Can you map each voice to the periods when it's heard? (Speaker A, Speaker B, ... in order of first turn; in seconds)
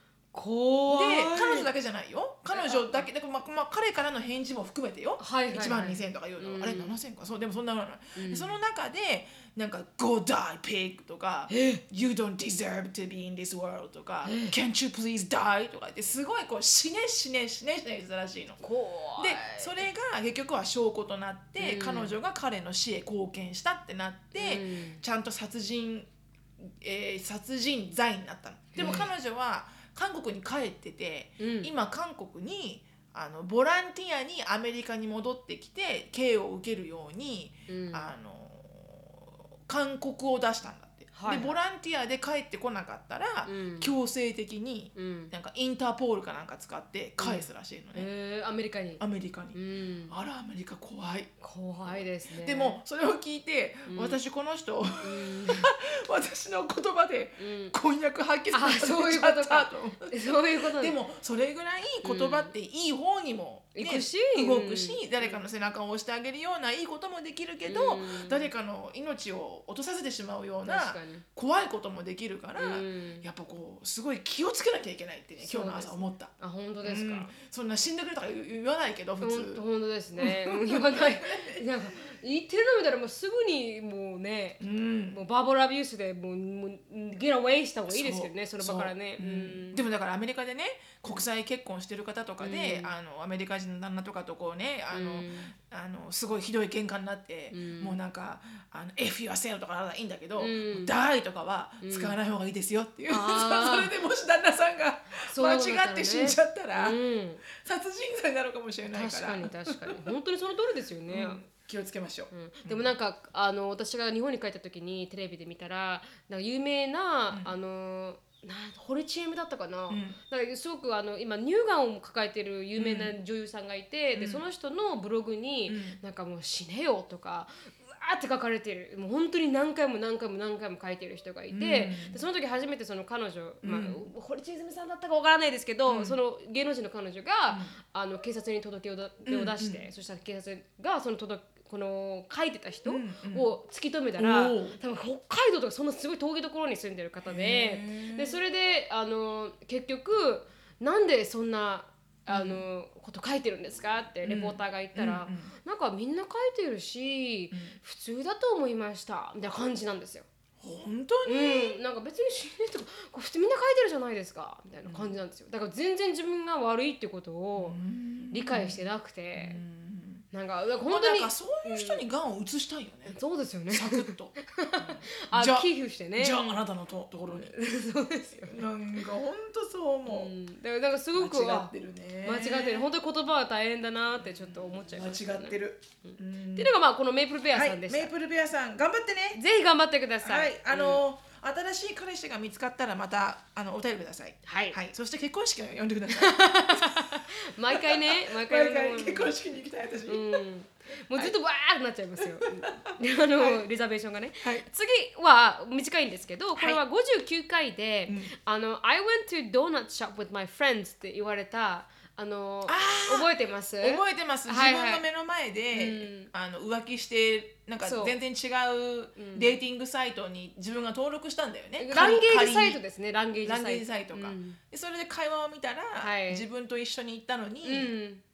Speaker A: 0.3-1.7, 2.5-3.1, 5.2-7.0, 8.2-8.6, 11.5-11.8, 14.2-14.6, 18.6-19.9, 21.6-22.2, 24.3-25.0, 28.8-29.1, 31.4-31.7, 37.7-38.0, 41.1-41.5, 43.4-44.0, 45.0-45.3, 47.2-49.0, 49.5-50.1, 51.4-52.8, 53.9-54.2, 55.0-55.7, 57.4-57.8, 58.5-61.0, 62.0-62.5, 63.8-65.4, 67.6-68.5, 70.7-71.2, 72.6-73.3, 75.4-77.3, 79.2-89.8, 92.4-92.9, 94.9-95.5, 97.5-98.0, 100.4-100.9, 101.8-102.2, 103.1-103.9, 105.2-107.4, 108.9-111.4, 112.3-160.2, 161.2-167.8, 168.3-169.6, 170.3-172.0, 173.1-176.6, 177.3-178.6, 180.1-181.7, 182.2-188.1, 189.3-191.0, 194.4-194.8, 196.1-199.3, 200.1-215.0, 215.7-216.3, 217.8-218.2, 219.2-219.6, 221.8-224.6, 226.0-226.4, 227.6-228.2
Speaker B: 0.9-18.6, 19.2-48.1, 49.0-49.5, 50.1-51.3, 51.8-60.1, 60.8-76.3, 76.8-79.6, 80.2-81.6, 84.6-85.2, 87.9-110.1, 111.1-112.9, 117.3-117.5, 119.9-120.2, 122.8-123.1, 124.1-124.4, 125.7-126.0, 131.5-132.2, 133.6-134.1, 135.9-136.2, 137.5-137.7, 139.2-139.8, 142.8-143.5, 144.2-144.8, 147.2-148.4, 152.3-152.6, 154.2-155.5, 157.5-157.8, 160.6-161.8, 164.8-165.2, 167.6-170.2, 170.8-173.2, 173.7-177.5, 178.3-180.3, 181.1-182.9, 184.2-186.7, 187.5-189.4, 190.2-200.4, 202.2-203.6, 208.1-208.3, 212.7-222.8, 223.4-227.9